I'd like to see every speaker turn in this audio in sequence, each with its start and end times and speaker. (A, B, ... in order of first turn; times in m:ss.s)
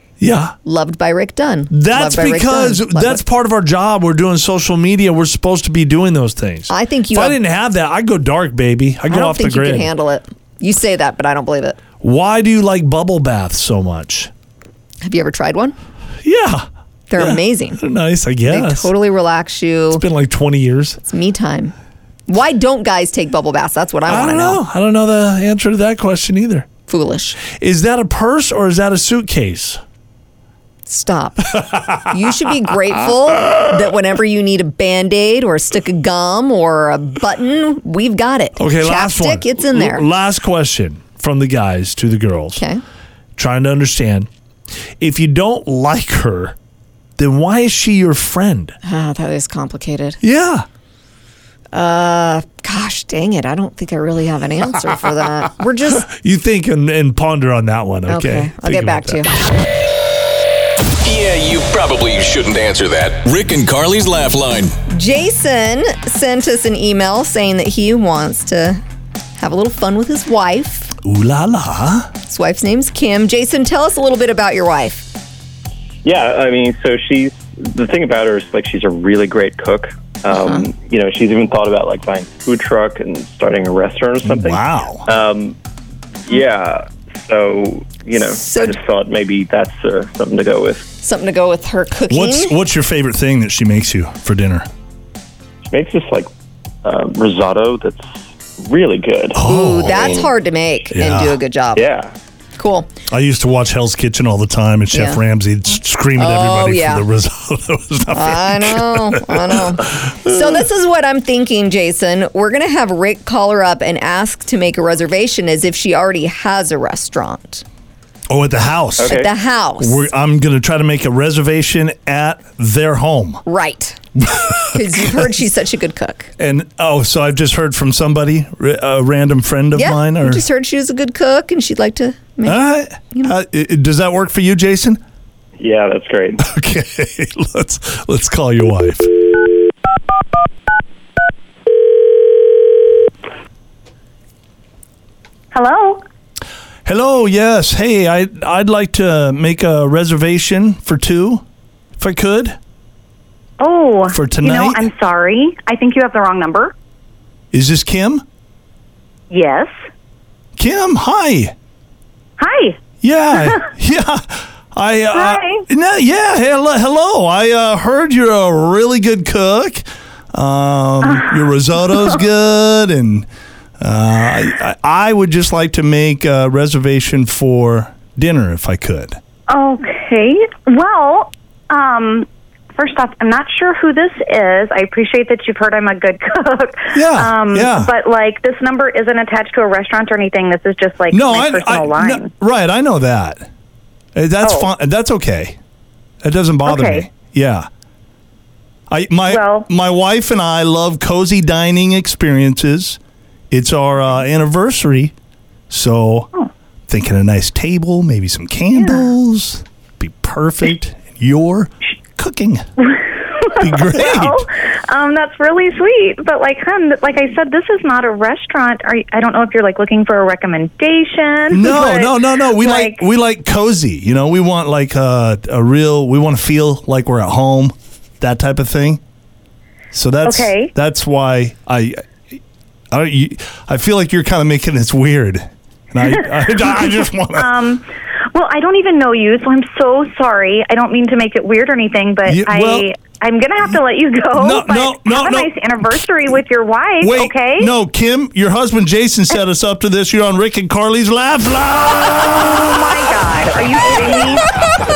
0:00.2-0:00.6 A
0:00.6-0:03.2 B
0:01.7-0:09.9 A
0:06.7-0:07.4 B
0:09.1-0:11.8 B
0:12.0-0:14.3 A
0:15.0-0:15.7 B
0:16.2-0:18.9 A
0:17.1-0:17.8 B
0:18.5-0:20.0 B
0:19.9-0:21.0 A
0:21.0-0:21.7 B
0:22.3-0:24.6 B
0:24.1-0:26.7 A
0:26.9-0:27.4 B
0:27.4-0:29.8 A
0:30.9-0:40.0 B
0:31.5-0:32.5 A
0:38.6-0:42.6 A
0:42.6-0:42.8 B
0:43.4-0:44.3 A
0:45.0-0:46.5 A
0:47.2-0:48.8 A
0:48.8-0:50.2 B
0:50.2-0:50.7 A
0:51.7-0:56.1 B
0:55.9-0:59.3 A
0:58.1-0:59.3 B
1:01.0-1:04.7 C
1:04.9-1:08.8 B
1:09.4-1:10.9 B
1:11.0-1:12.1 A
1:12.2-1:15.1 B
1:16.0-1:25.6 D
1:20.3-1:20.7 B
1:24.2-1:25.1 A
1:26.3-1:30.9 D
1:28.3-1:28.8 B
1:31.0-1:32.5 B
1:32.1-1:34.7 A
1:35.7-1:36.3 D
1:36.8-1:40.3 D
1:39.3-1:40.1 A
1:39.4-1:41.8 B
1:40.9-1:41.4 A
1:41.8-1:42.1 D
1:42.6-1:42.9 B
1:43.1-1:50.6 A
1:44.9-1:45.2 B
1:46.2-1:47.0 B
1:48.1-1:57.6 B
1:58.3-1:59.2 A
1:59.0-1:59.3 D
1:59.0-2:00.0 B
1:59.8-2:03.4 A
2:03.4-2:04.0 B
2:04.2-2:05.3 A
2:04.7-2:06.3 B
2:06.4-2:10.4 A
2:09.7-2:13.3 B
2:12.4-2:15.0 A
2:15.6-2:16.4 D
2:16.4-2:19.1 A
2:25.5-2:26.0 E
2:26.8-2:31.4 A
2:32.0-2:32.6 A
2:33.6-2:36.7 E
2:34.1-2:34.8 A
2:37.5-2:38.2 A
2:39.3-2:39.7 E
2:40.6-2:41.5 A
2:42.4-2:42.8 E
2:43.0-2:53.3 A
2:43.3-2:43.7 E
2:45.1-2:45.6 E
2:53.8-2:59.2 A
2:59.5-3:12.3 E
3:06.9-3:07.9 A
3:11.1-3:13.5 A
3:14.1-3:15.6 A
3:14.4-3:14.7 E
3:16.2-3:17.7 A
3:16.6-3:17.1 E
3:18.9-3:23.0 A
3:19.3-3:19.7 E
3:23.5-3:25.1 A
3:25.7-3:26.3 A
3:26.9-3:32.6 A
3:33.4-3:43.0 E
3:33.5-3:34.4 A
3:41.5-3:49.0 A
3:49.9-3:52.4 A
3:50.2-3:50.7 E
3:52.9-3:57.5 A
3:57.4-4:07.7 E
4:02.2-4:02.9 A
4:04.3-4:05.8 A
4:07.0-4:12.8 A
4:12.1-4:14.5 E
4:14.0-4:14.4 A